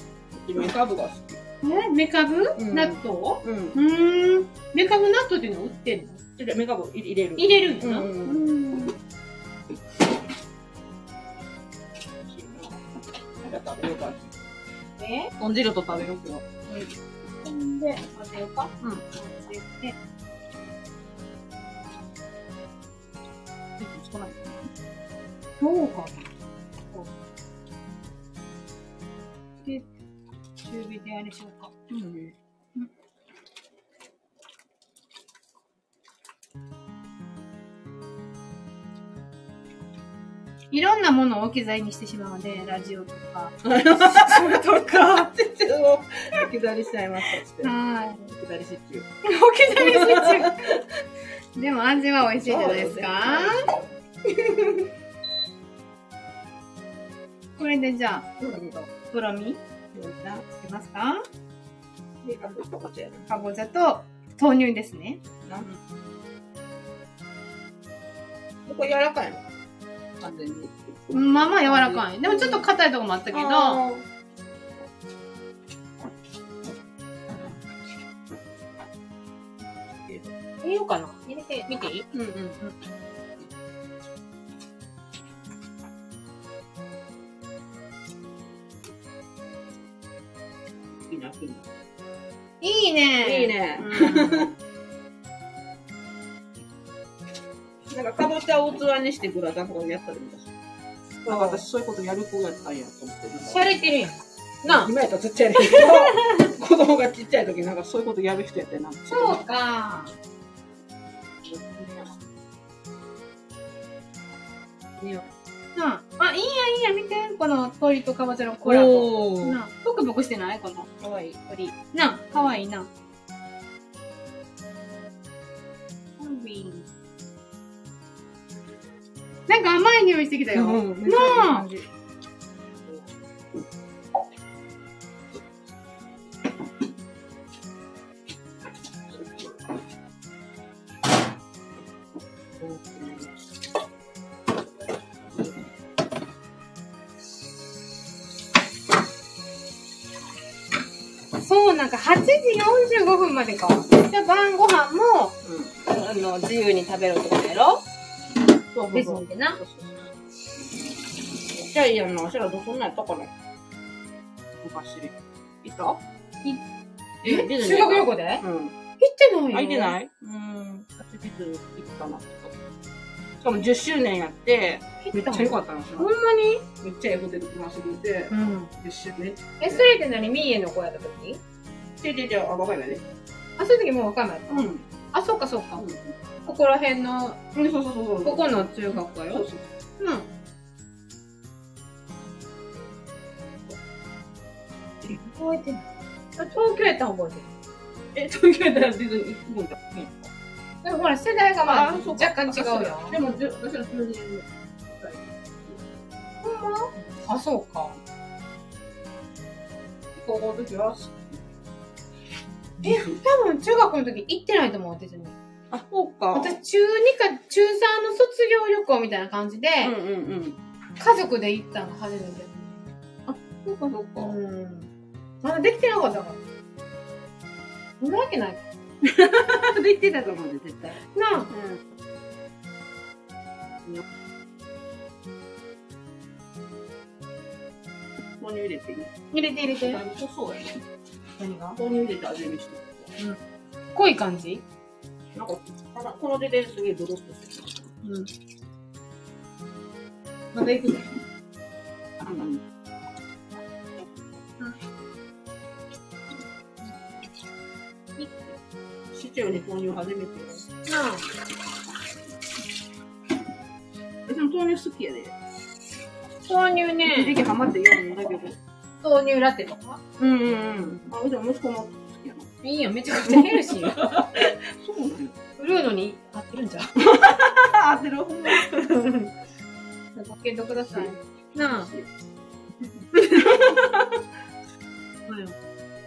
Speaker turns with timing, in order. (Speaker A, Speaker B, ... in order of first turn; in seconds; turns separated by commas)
Speaker A: 0.3-1.4, Speaker B: 1.6-6.2, Speaker A: 2.6-3.8, Speaker A: 6.4-8.9, Speaker B: 7.4-8.4, Speaker A: 12.2-12.8, Speaker A: 13.4-14.4, Speaker B: 15.0-15.3, Speaker A: 15.4-16.4, Speaker B: 17.4-20.0, Speaker A: 23.8-24.7, Speaker B: 25.6-26.3, Speaker B: 30.6-31.7, Speaker A: 31.9-32.4, Speaker B: 40.7-45.3, Speaker A: 43.6-47.7, Speaker B: 47.6-48.3, Speaker A: 48.4-49.1, Speaker B: 49.2-50.8, Speaker A: 49.8-50.8, Speaker B: 51.6-53.7, Speaker A: 52.4-54.9, Speaker B: 57.6-58.3, Speaker A: 58.4-58.8, Speaker B: 58.9-59.6, Speaker A: 59.9-60.5, Speaker B: 60.6-61.2, Speaker A: 62.2-63.3, Speaker B: 63.3-65.2, Speaker A: 65.5-65.7, Speaker A: 68.7-69.4, Speaker A: 70.2-72.7, Speaker B: 71.1-73.8, Speaker A: 73.3-74.0, Speaker A: 80.0-80.3, Speaker B: 80.6-82.0, Speaker A: 82.1-82.6, Speaker A: 91.1-91.7, Speaker B: 92.6-94.5, Speaker A: 93.2-94.5, Speaker A: 97.9-100.5, Speaker B: 101.2-101.6, Speaker A: 101.3-103.7, Speaker B: 103.5-104.9, Speaker A: 104.7-109.4, Speaker B: 105.6-106.5, Speaker B: 109.1-110.1, Speaker A: 111.4-112.2, Speaker B: 115.8-120.9, Speaker A: 118.7-119.6, Speaker A: 121.0-121.7, Speaker B: 121.5-122.9, Speaker B: 126.2-126.8, Speaker B: 129.5-131.7, Speaker A: 130.5-131.9, Speaker A: 142.6-143.3, Speaker B: 151.4-157.8, Speaker A: 155.4-155.7, Speaker A: 158.7-160.1, Speaker B: 158.9-159.6, Speaker A: 161.5-163.3, Speaker A: 164.6-166.0, Speaker B: 167.2-168.4, Speaker A: 167.2-168.8, Speaker B: 169.0-169.9, Speaker A: 169.5-172.5, Speaker A: 173.4-176.1, Speaker B: 175.0-176.7, Speaker A: 176.8-179.9, Speaker B: 178.3-178.7, Speaker B: 179.6-181.4, Speaker A: 182.0-183.0, Speaker B: 183.6-185.8, Speaker A: 184.5-184.8, Speaker A: 185.8-186.2, Speaker B: 186.4-187.4, Speaker A: 187.5-189.7, Speaker B: 188.2-189.4, Speaker B: 190.0-190.3, Speaker B: 195.2-195.8, Speaker B: 196.4-197.5, Speaker A: 198.1-200.3, Speaker B: 200.8-203.2, Speaker A: 201.6-205.8, Speaker B: 206.4-208.0, Speaker A: 210.2-211.4, Speaker A: 212.8-213.2, Speaker B: 212.8-215.3, Speaker A: 215.7-216.6, Speaker B: 216.3-219.9, Speaker A: 219.8-220.6, Speaker B: 221.0-222.8, Speaker A: 223.3-224.3, Speaker B: 224.2-224.9, Speaker B: 225.4-226.4, Speaker B: 228.0-228.6, Speaker A: 229.0-231.8, Speaker B: 231.2-231.5, Speaker A: 238.4-239.1, Speaker B: 239.3-240.0, Speaker A: 239.8-240.8, Speaker B: 241.4-241.8, Speaker A: 241.8-243.1, Speaker B: 243.9-244.6, Speaker A: 245.3-247.9, Speaker B: 248.0-248.3, Speaker B: 250.5-251.1, Speaker A: 252.2-252.6, Speaker B: 258.2-258.4, Speaker A: 259.1-260.7, Speaker B: 260.9-261.3, Speaker A: 264.3-265.3, Speaker B: 266.5-267.4, Speaker A: 267.1-268.6, Speaker B: 269.0-270.0, Speaker A: 270.2-272.5, Speaker B: 272.6-274.1, Speaker A: 273.1-275.3, Speaker B: 275.6-276.9, Speaker A: 277.0-278.7, Speaker B: 278.5-279.3, Speaker B: 280.1-281.9, Speaker A: 280.9-282.1, Speaker B: 283.2-283.7, Speaker A: 283.3-284.2, Speaker B: 285.3-285.6